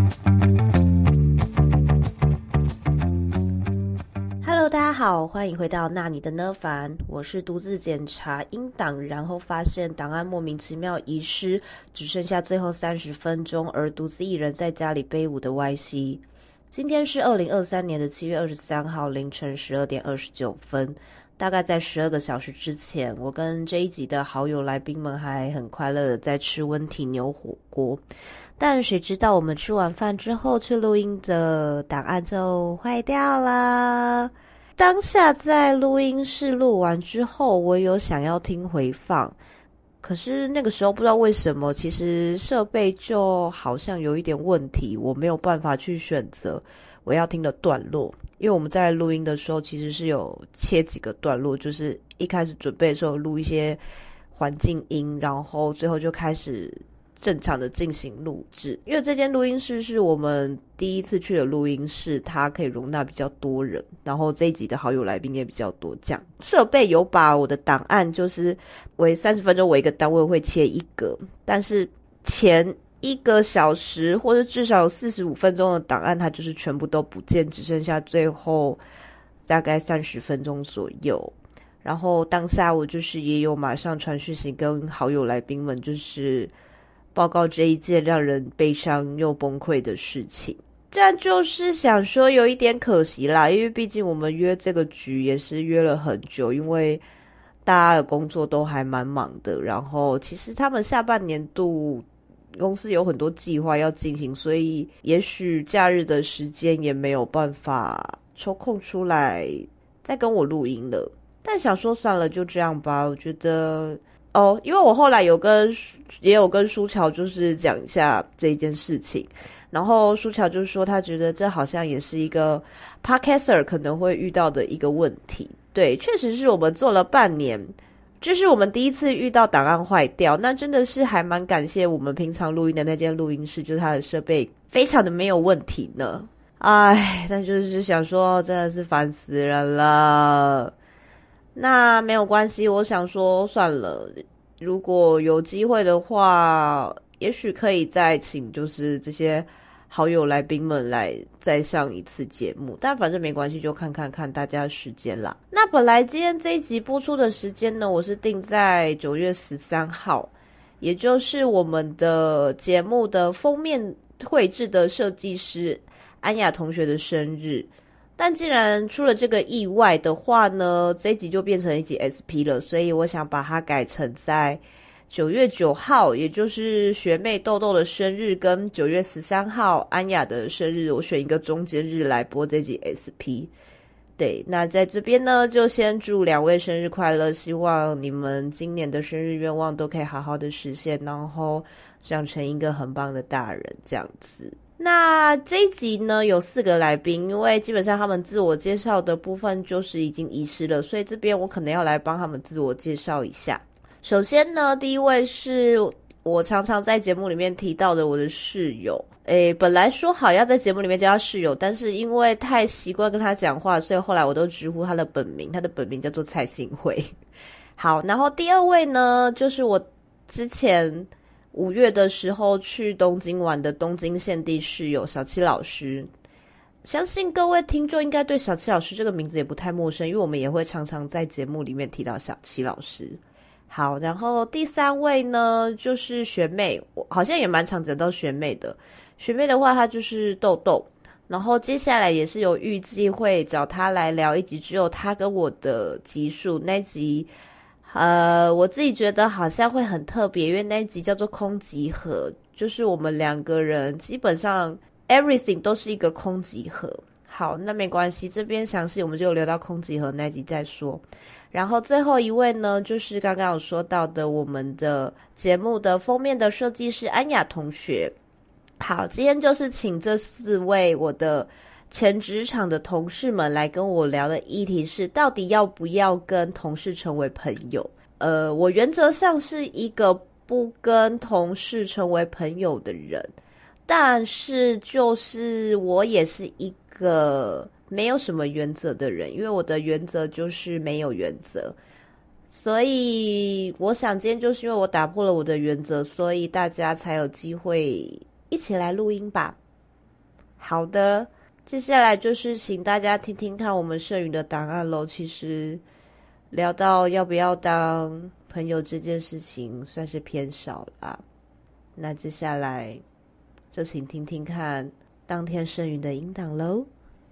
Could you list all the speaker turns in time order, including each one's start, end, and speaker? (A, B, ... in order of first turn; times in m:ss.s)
0:04.4-0:28.0 A
0:28.6-0:39.4 A
0:40.0-0:53.8 A
0:54.3-1:18.8 A
1:19.4-1:26.5 A
1:27.2-1:37.0 A
1:37.6-2:20.7 A
2:21.5-3:03.5 A
3:04.2-3:37.1 A
3:37.8-3:46.1 A
3:46.8-4:07.3 A
4:07.9-4:28.2 A
4:28.8-4:43.3 A
4:43.9-4:51.8 A
4:52.5-4:59.6 A
5:00.6-5:05.8 A
5:06.5-5:11.2 A
5:12.0-5:13.0 A
5:13.7-5:16.9 A